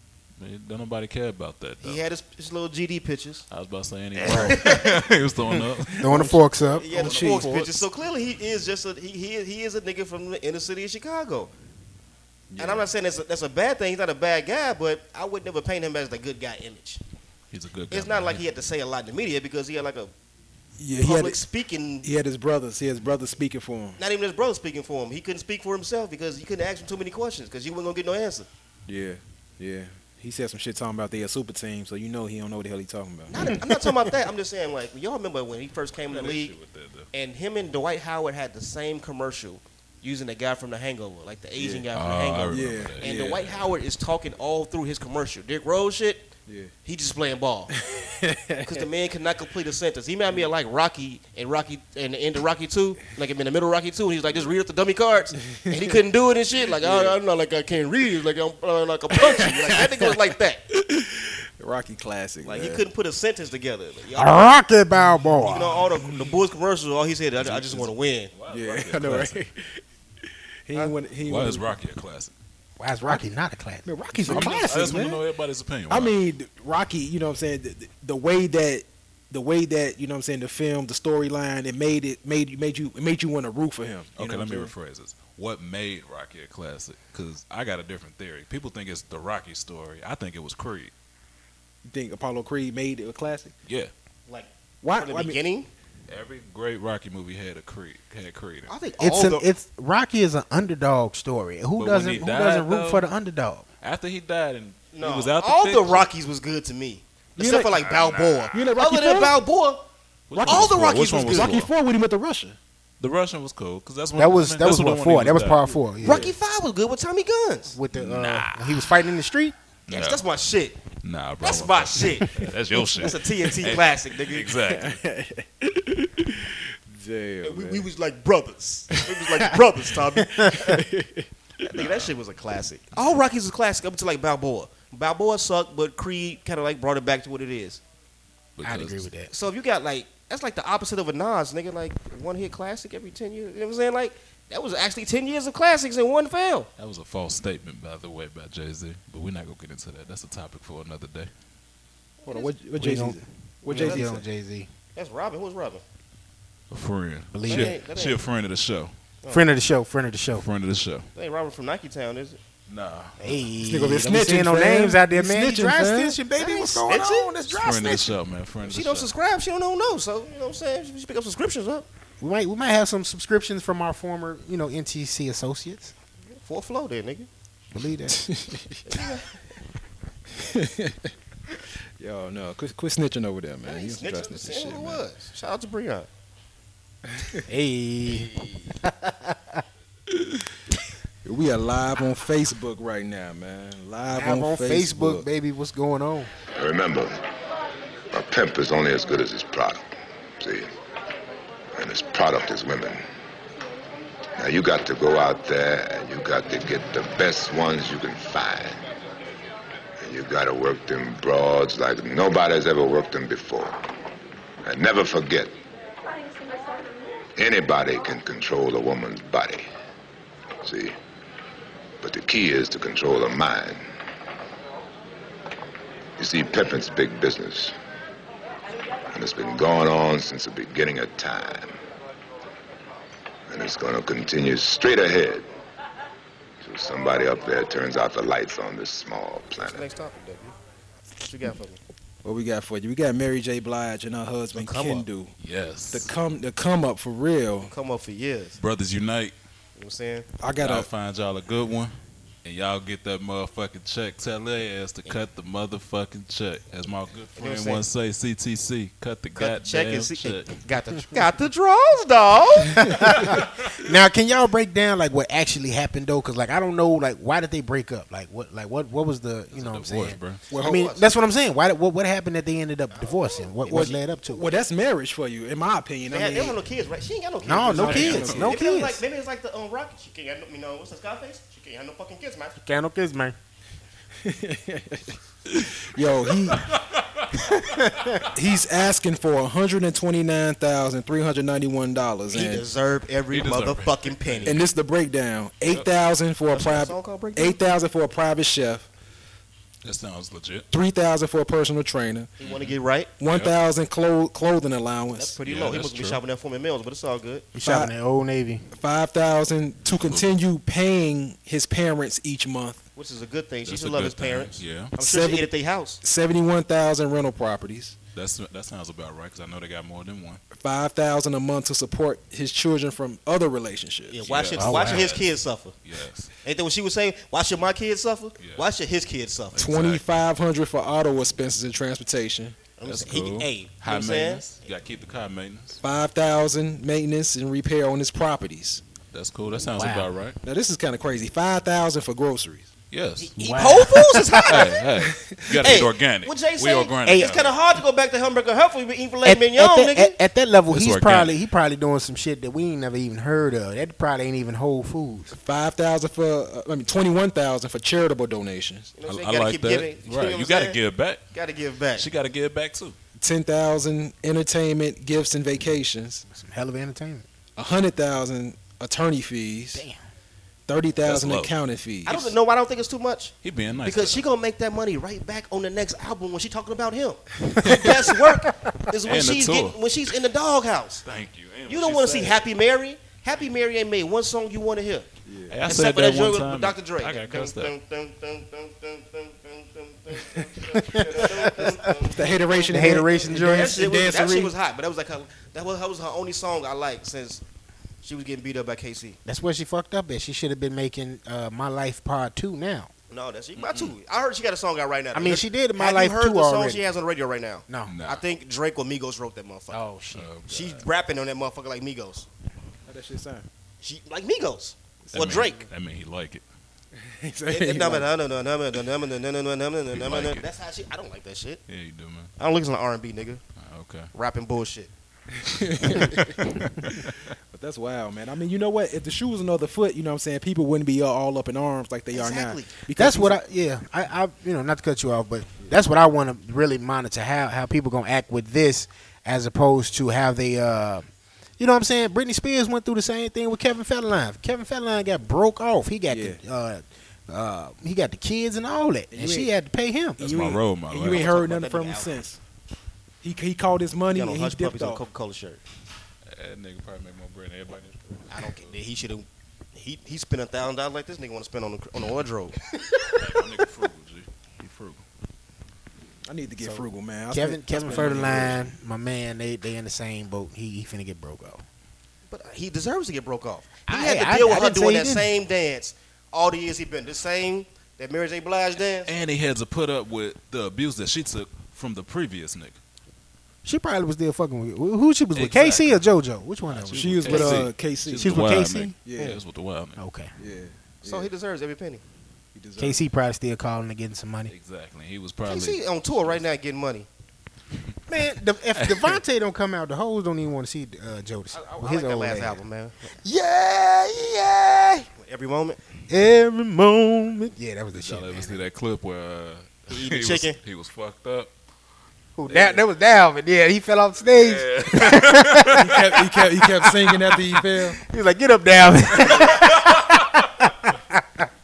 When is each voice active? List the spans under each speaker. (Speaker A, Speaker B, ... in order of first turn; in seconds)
Speaker A: 0.4-2.0, 3.5-6.2, 7.0-7.5, 17.5-18.4, 36.1-37.1, 41.9-43.6, 67.4-69.4, 71.2-72.3, 74.3-76.2, 84.2-90.9, 93.7-93.9, 96.1-98.8, 101.8-103.1, 103.8-106.1, 107.8-108.5, 110.3-111.7, 113.0-115.8, 117.9-118.9, 119.9-120.2, 121.0-125.0, 131.8-132.2, 138.6-139.1, 146.8-151.3, 156.7-158.9, 160.3-161.1, 162.7-163.1, 167.5-169.1, 245.4-246.1, 248.6-249.4, 250.6-260.6, 269.5-270.4, 293.3-294.6, 299.8-300.7, 302.4-303.6, 305.5-306.2, 309.9-310.3, 313.6-314.9, 318.1-320.4, 324.2-325.3, 325.8-326.3, 328.4-328.7, 329.5-330.0, 332.9-335.8, 339.1-340.4, 342.9-343.3, 344.4-347.6, 350.7-351.4, 359.1-361.2, 362.0-363.0, 371.1-371.6, 373.4-374.3, 379.1-380.2, 381.1-382.5, 385.5-387.8, 403.6-404.0, 407.9-408.3, 410.1-410.9, 415.1-416.4, 419.9-420.5, 421.7-422.3, 423.6-424.1, 425.8-427.2, 450.2-451.3, 456.3-458.8, 463.1-465.0, 479.1-482.8, 485.4-486.1, 486.7-490.0, 494.5-496.5, 498.8-499.2, 507.9-511.5, 512.5-512.8, 514.2-516.0, 519.5-520.5
Speaker B: 1.8-3.5, 4.2-4.9, 6.8-11.5, 12.6-17.0, 17.9-20.1, 21.0-22.1, 24.0-28.5, 33.3-36.5, 37.1-46.3, 46.8-47.7, 48.6-60.6, 62.4-64.4, 65.4-68.3, 94.3-95.7, 98.7-99.5, 104.9-111.6, 116.0-117.8, 119.9-120.8, 121.4-124.6, 127.4-130.8, 131.6-137.8, 139.3-146.7, 152.2-152.5, 153.7-154.1, 154.9-155.8, 157.5-158.2, 159.2-159.5, 161.2-162.4, 166.4-167.3, 168.7-171.9, 176.4-177.3, 178.9-179.3, 183.7-186.1, 188.1-188.6, 239.6-240.6, 241.2-241.8, 244.6-245.1, 247.7-248.6, 249.8-250.3, 257.4-257.8, 259.4-263.4, 270.6-271.1, 272.9-273.9, 276.1-282.6, 292.3-294.6, 296.5-297.6, 302.4-303.1, 305.1-307.5, 313.0-316.0, 324.1-325.8, 326.4-329.6, 332.8-334.4, 343.2-344.8, 345.6-350.2, 358.9-360.8, 361.3-362.1, 372.1-381.1, 381.7-385.1, 385.7-397.4, 398.0-399.2, 403.1-409.8, 410.5-412.3, 413.8-415.6, 417.5-421.6, 422.4-423.4, 424.1-424.9, 432.1-432.8, 451.1-452.2, 454.1-455.6, 458.3-462.6, 472.3-479.1, 491.0-492.0, 495.5-497.1, 501.5-503.1, 505.1-505.8, 509.9-510.6, 519.2-519.7
Speaker C: 4.3-4.7, 5.5-7.8, 64.2-65.8, 72.8-74.6, 99.0-103.7, 114.2-116.3, 117.7-119.5, 138.6-139.3, 152.8-154.7, 157.3-157.8, 159.3-160.5, 163.2-168.2, 172.2-175.9, 177.7-178.2, 187.5-188.3, 188.8-189.6, 194.1-196.3, 262.8-274.6, 277.4-279.0, 282.6-283.4, 287.6-288.1, 307.5-308.6, 324.6-325.1, 339.7-340.1, 343.4-344.6, 347.1-347.3, 349.2-355.3, 366.3-367.3, 369.7-370.0, 390.7-392.1, 392.7-393.8, 399.2-402.9, 405.1-406.8, 407.7-407.9, 409.7-410.3, 433.0-441.1, 441.6-450.4, 466.6-471.6, 473.9-475.3, 483.6-489.0, 490.0-490.3, 492.8-494.5, 498.1-502.6, 503.2-505.1, 506.1-508.6, 512.4-516.2, 516.8-517.2, 517.7-521.5
Speaker D: 5.9-7.5, 12.5-12.9, 20.8-21.4, 22.0-24.0, 28.9-33.4, 41.6-41.9, 42.5-43.5, 46.5-46.7, 47.7-48.9, 56.8-57.2, 59.3-59.7, 60.7-62.8, 68.5-69.8, 70.7-71.7, 73.9-75.2, 75.9-84.7, 91.9-93.5, 94.8-95.4, 107.4-107.8, 108.5-109.4, 111.3-112.6, 124.7-127.9, 130.4-131.3, 152.3-154.2, 163.7-166.2, 178.2-178.8, 180.4-181.1, 182.0-185.0, 187.1-187.4, 190.1-190.4, 191.2-195.3, 242.2-245.3, 245.9-247.7, 250.4-250.9, 270.5-270.9, 273.7-276.6, 277.6-278.5, 284.2-286.7, 288.3-292.6, 294.5-298.9, 300.7-302.3, 303.2-305.4, 307.6-307.9, 308.7-312.8, 315.0-315.5, 316.0-317.9, 320.5-324.2, 329.6-332.6, 335.8-338.8, 340.4-342.7, 355.3-358.9, 363.2-366.2, 367.6-369.9, 370.7-372.2, 385.3-385.6, 392.1-394.5, 412.9-413.5, 415.1-415.4, 417.0-418.1, 425.3-426.4, 427.5-433.4, 446.1-446.4, 449.1-449.5, 450.2-452.4, 453.2-455.0, 466.3-468.6, 487.0-488.3, 489.1-489.4, 490.4-491.3, 492.5-493.0, 515.8-518.0
Speaker E: 196.6-197.2, 198.1-200.7, 201.7-203.0, 204.4-208.8, 210.0-213.8, 214.7-215.5, 217.4-219.7, 220.6-220.9, 222.0-223.8, 226.2-227.8, 229.1-231.8, 233.5-235.5, 236.6-239.9